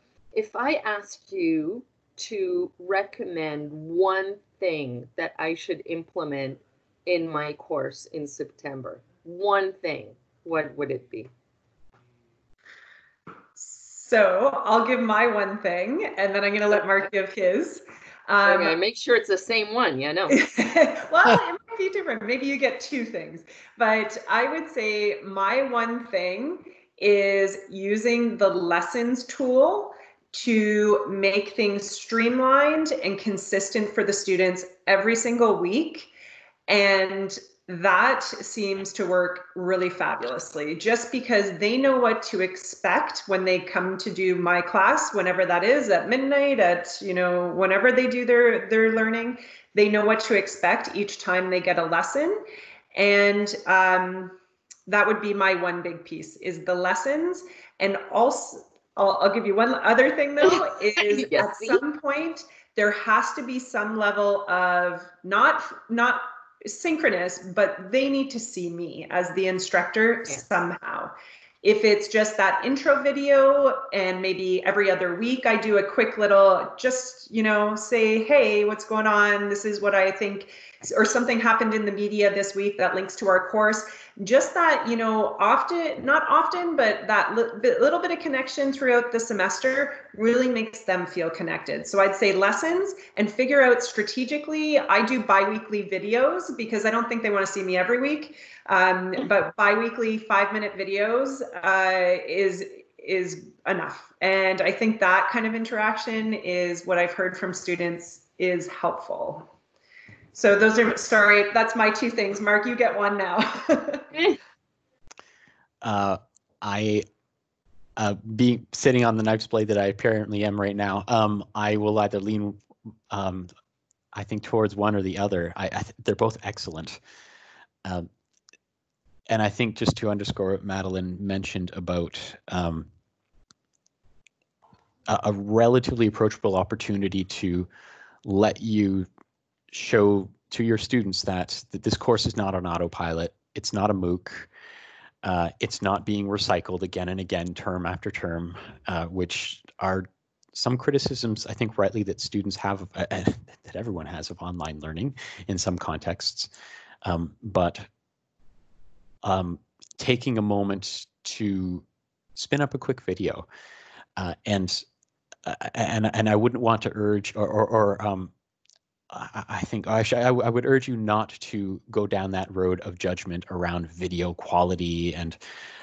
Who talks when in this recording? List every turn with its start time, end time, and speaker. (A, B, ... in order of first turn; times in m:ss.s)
0:00.3-0:11.3 A
0:13.6-0:18.8 B
0:18.4-0:20.4 A
0:20.3-0:36.1 B
0:36.7-0:52.4 B
0:52.9-0:54.4 B
0:54.9-1:49.5 B
1:00.5-1:01.8 A
1:50.3-1:54.2 B
1:55.8-1:57.0 C
1:58.0-2:03.5 C
2:04.1-2:07.0 C
2:09.3-2:12.9 C
2:15.1-2:17.7 C
2:18.2-2:19.1 C
2:19.7-2:24.5 C
2:25.2-2:36.5 C
2:37.0-2:37.9 C
2:39.2-2:43.4 C
2:44.2-2:44.8 C
2:45.4-2:48.3 C
2:49.1-2:55.4 C